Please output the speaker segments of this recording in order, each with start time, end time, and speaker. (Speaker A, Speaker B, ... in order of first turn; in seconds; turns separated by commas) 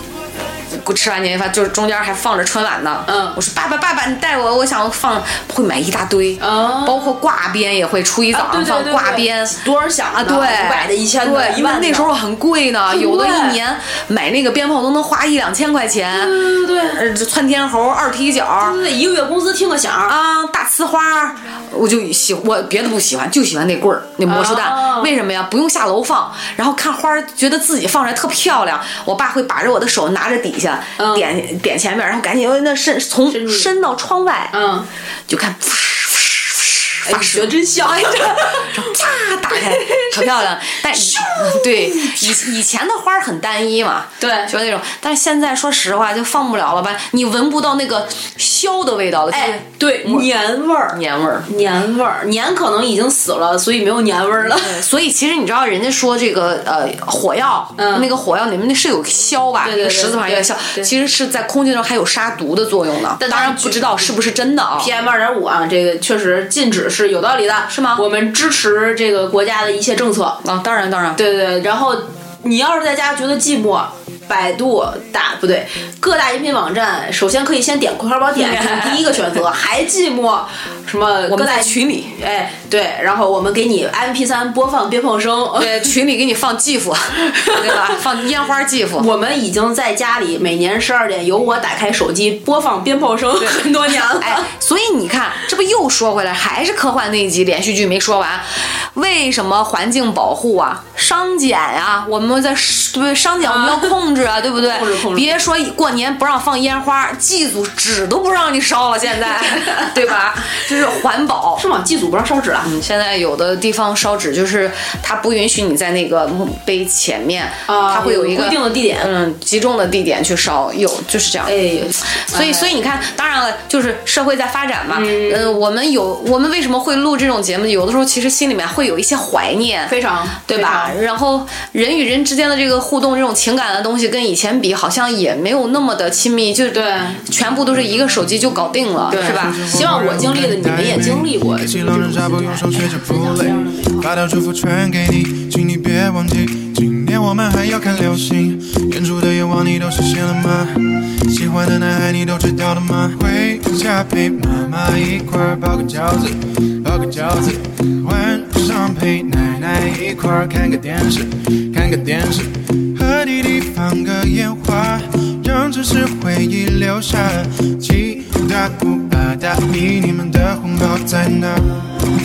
Speaker A: 0.7-9.6, Speaker B: 3.0-3.4, Speaker B: 6.4-7.1, Speaker B: 8.3-12.1, Speaker A: 10.1-18.8, Speaker B: 12.9-13.6, Speaker B: 16.1-17.0, Speaker B: 18.6-20.1, Speaker A: 20.1-34.5, Speaker B: 24.2-25.1, Speaker B: 31.0-31.3, Speaker B: 33.3-33.7, Speaker B: 34.5-34.9, Speaker A: 35.3-50.3, Speaker B: 37.0-38.9, Speaker B: 39.5-40.3, Speaker B: 40.9-42.5, Speaker B: 44.2-44.5, Speaker B: 49.3-54.8, Speaker A: 50.9-51.5, Speaker A: 54.5-64.9, Speaker B: 57.8-58.1, Speaker B: 59.6-60.9, Speaker B: 63.2-64.0, Speaker B: 64.8-70.4, Speaker A: 67.7-68.0, Speaker A: 70.4-71.2, Speaker B: 71.2-85.9, Speaker A: 78.3-79.3, Speaker A: 81.3-82.1, Speaker A: 85.5-89.1, Speaker B: 87.3-88.0, Speaker B: 89.0-94.5, Speaker A: 93.4-111.6, Speaker B: 103.4-104.0, Speaker B: 104.6-105.4, Speaker B: 109.6-109.9, Speaker B: 111.6-112.7, Speaker A: 112.6-121.5, Speaker B: 117.7-119.1, Speaker B: 121.4-122.8, Speaker A: 122.2-129.9, Speaker B: 124.9-125.5, Speaker B: 129.9-130.9, Speaker A: 130.4-139.8, Speaker B: 136.7-137.2, Speaker B: 139.1-144.1, Speaker C: 139.1-171.8